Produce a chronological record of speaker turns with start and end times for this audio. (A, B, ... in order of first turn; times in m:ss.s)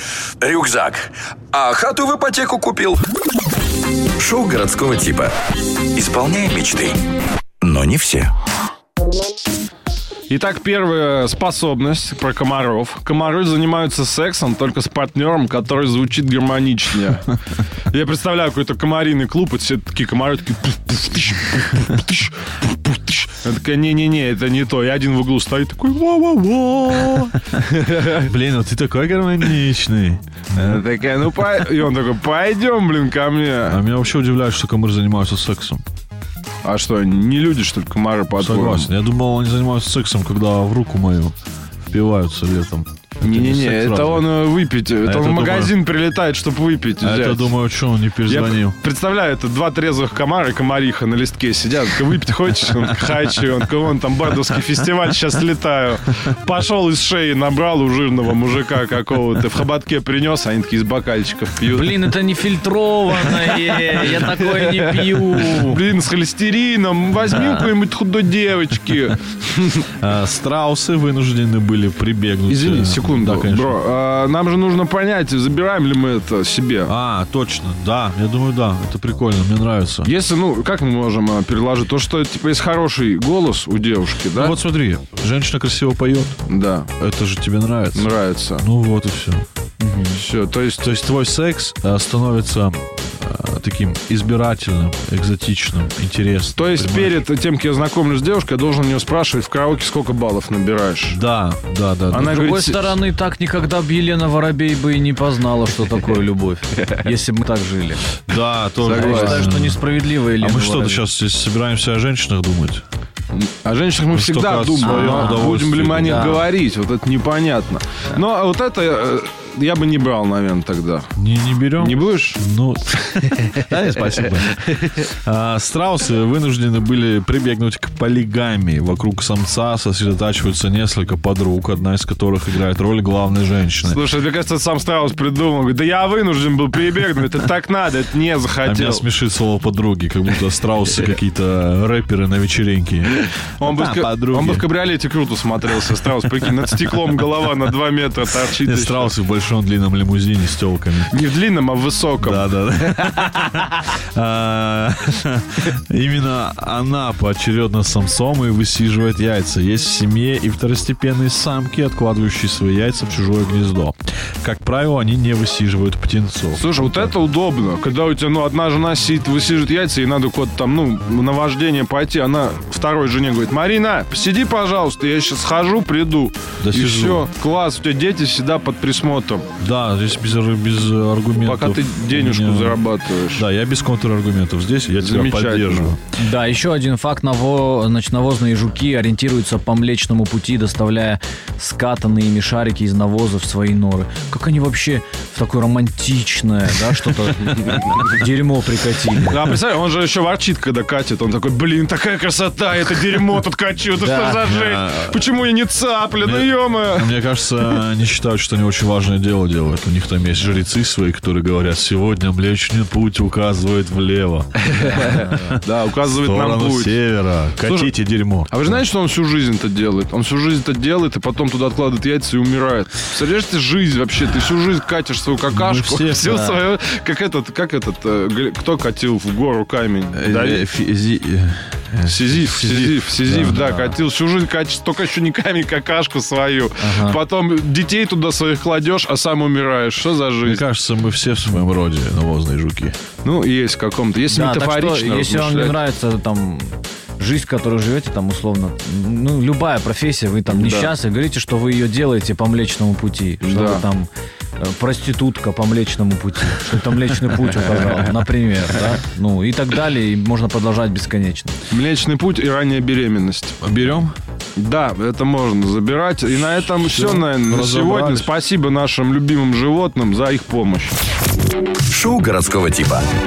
0:00.4-0:03.0 A
0:04.2-0:07.0 A
0:07.6-0:08.3 A
0:10.3-0:17.3 B
0:17.9-0:28.3 B
0:28.1-0:30.8 C
0:30.5-0:33.8 B
0:33.7-0:35.8 C
0:36.6-0:38.9 B
0:38.4-0:41.4 C
0:41.9-0:44.3 C
0:43.2-0:47.5 B
0:45.0-0:45.7 C
0:47.0-0:48.8 C
0:48.3-1:02.1 B
1:01.7-1:05.8 D
1:03.2-1:09.9 B
1:10.0-1:13.8 C
1:12.5-1:16.9 B
1:16.9-1:20.1 C
1:20.0-1:24.6 B
1:24.3-1:26.4 C
1:26.5-1:26.9 B
1:27.0-1:29.4 C
1:27.9-1:28.6 B
1:29.8-1:30.2 D
1:30.1-1:30.8 B
1:30.8-1:37.2 C
1:36.6-1:41.2 B
1:41.1-1:42.5 C
1:42.1-1:43.0 B
1:42.3-1:48.1 D
1:48.3-1:52.8 C
1:48.8-1:49.5 B
1:48.9-1:51.0 D
1:53.3-2:01.1 B
1:54.1-1:56.4 C
1:54.8-1:56.4 D
2:01.2-2:14.0 C
2:01.8-2:02.4 B
2:04.4-2:05.0 B
2:13.8-2:19.1 B
2:18.6-2:24.7 C
2:23.6-2:29.1 B
2:28.6-2:31.1 C
2:31.1-2:32.6 B
2:32.2-2:47.1 C
2:46.6-2:59.5 B
2:56.6-2:57.2 C
2:59.6-3:06.0 C
3:01.4-3:03.5 B
3:05.0-3:06.0 B
3:06.2-3:19.4 D
3:19.3-3:27.1 B
3:24.0-3:24.4 D
3:24.4-3:25.3 C
3:26.2-3:38.8 C
3:34.6-3:37.0 B
3:35.0-3:35.3 D
3:37.6-3:50.6 B
3:45.5-3:46.6 C
3:50.1-3:53.8 C
3:52.1-4:00.6 B
3:53.4-3:53.8 D
3:56.8-3:57.2 D
4:00.4-4:03.0 C
4:03.2-4:05.8 B
4:04.3-4:21.6 D
4:10.5-4:10.9 B
4:13.4-4:13.8 B
4:21.7-4:23.6 B
4:23.6-4:24.1 C
4:24.6-4:31.0 B
4:26.9-4:28.3 C
4:31.9-4:33.1 A